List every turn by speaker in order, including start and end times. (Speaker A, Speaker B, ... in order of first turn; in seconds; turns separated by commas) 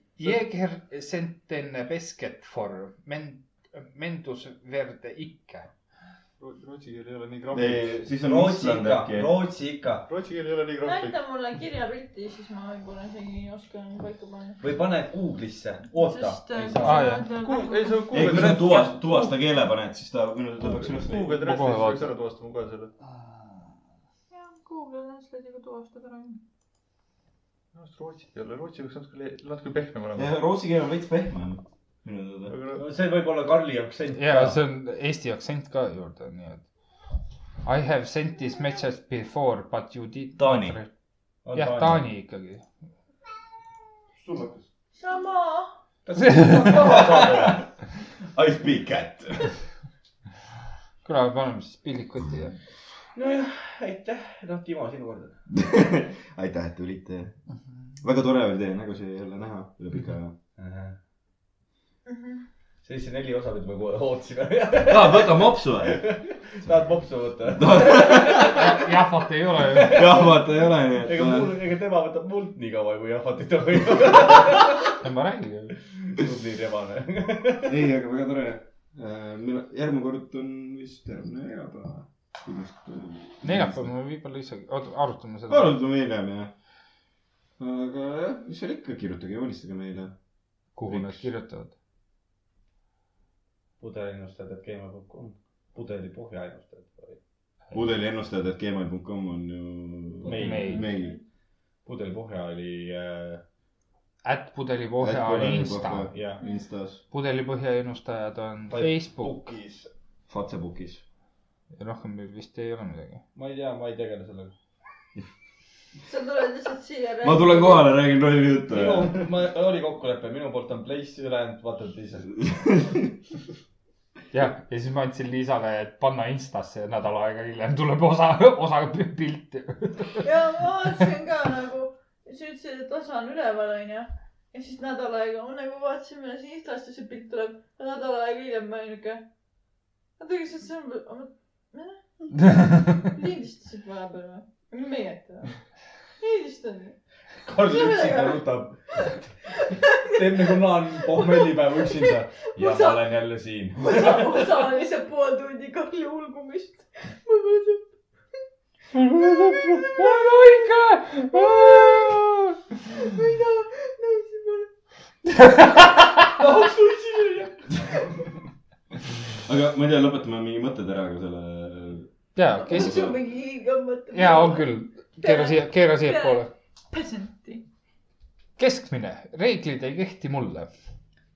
Speaker A: 0.2-5.7, Speaker B: 6.4-8.0, Speaker C: 7.5-9.3, Speaker D: 8.2-10.1, Speaker B: 10.1-11.2, Speaker E: 10.8-14.6, Speaker D: 14.6-17.2, Speaker E: 15.9-18.5, Speaker A: 16.8-17.3, Speaker B: 17.3-19.3, Speaker C: 18.1-21.8, Speaker B: 20.6-22.9, Speaker A: 21.5-21.9, Speaker E: 24.3-26.4, Speaker B: 27.7-30.3, Speaker C: 30.1-32.5, Speaker B: 32.5-32.8, Speaker D: 32.8-34.6, Speaker A: 34.1-36.6, Speaker A: 37.6-40.9, Speaker C: 40.4-40.7, Speaker D: 41.4-42.0, Speaker A: 41.5-42.6, Speaker B: 44.2-44.6, Speaker E: 44.9-45.8, Speaker D: 46.0-47.7, Speaker A: 46.4-46.7, Speaker C: 46.7-47.1, Speaker C: 48.3-49.5, Speaker A: 51.0-52.6, Speaker D: 53.1-55.4, Speaker C: 55.5-57.4, Speaker C: 58.0-60.3, Speaker D: 60.6-61.0, Speaker E: 62.1-62.4, Speaker D: 62.8-68.9, Speaker C: 64.8-66.0, Speaker C: 67.5-68.7, Speaker A: 68.3-70.2, Speaker D: 69.5-70.4, Speaker C: 69.8-71.5, Speaker D: 71.0-75.0, Speaker A: 74.9-75.8, Speaker D: 76.0-77.8, Speaker C: 77.7-83.9, Speaker A: 83.4-85.8, Speaker C: 85.5-86.5, Speaker C: 87.6-90.1, Speaker A: 90.8-91.7, Speaker D: 93.8-97.2, Speaker C: 97.7-101.2, Speaker D: 100.2-100.7, Speaker A: 100.2-100.9, Speaker E: 100.4-101.2, Speaker D: 101.8-103.4, Speaker A: 104.2-106.1, Speaker C: 105.0-107.0, Speaker D: 106.1-106.4, Speaker A: 107.1-109.4, Speaker D: 108.7-109.9, Speaker C: 110.3-111.0, Speaker A: 111.7-113.2, Speaker D: 113.3-114.5, Speaker E: 116.1-118.0, Speaker C: 117.2-119.3, Speaker D: 118.7-122.3, Speaker C: 122.4-123.1, Speaker A: 124.3-130.3, Speaker E: 130.2-139.2, Speaker E: 140.2-147.0, Speaker A: 142.5-142.9, Speaker D: 147.4-149.3, Speaker E: 147.5-149.1, Speaker E: 149.7-150.6, Speaker D: 150.0-154.5, Speaker E: 151.2-153.1, Speaker E: 153.8-157.9, Speaker E: 158.9-162.2, Speaker A: 158.9-162.6, Speaker E: 162.9-164.7, Speaker A: 165.3-166.2, Speaker D: 166.4-167.3, Speaker C: 169.4-172.1, Speaker A: 172.3-173.1, Speaker E: 172.6-177.6, Speaker C: 172.7-173.1, Speaker A: 174.1-176.5, Speaker A: 178.6-180.7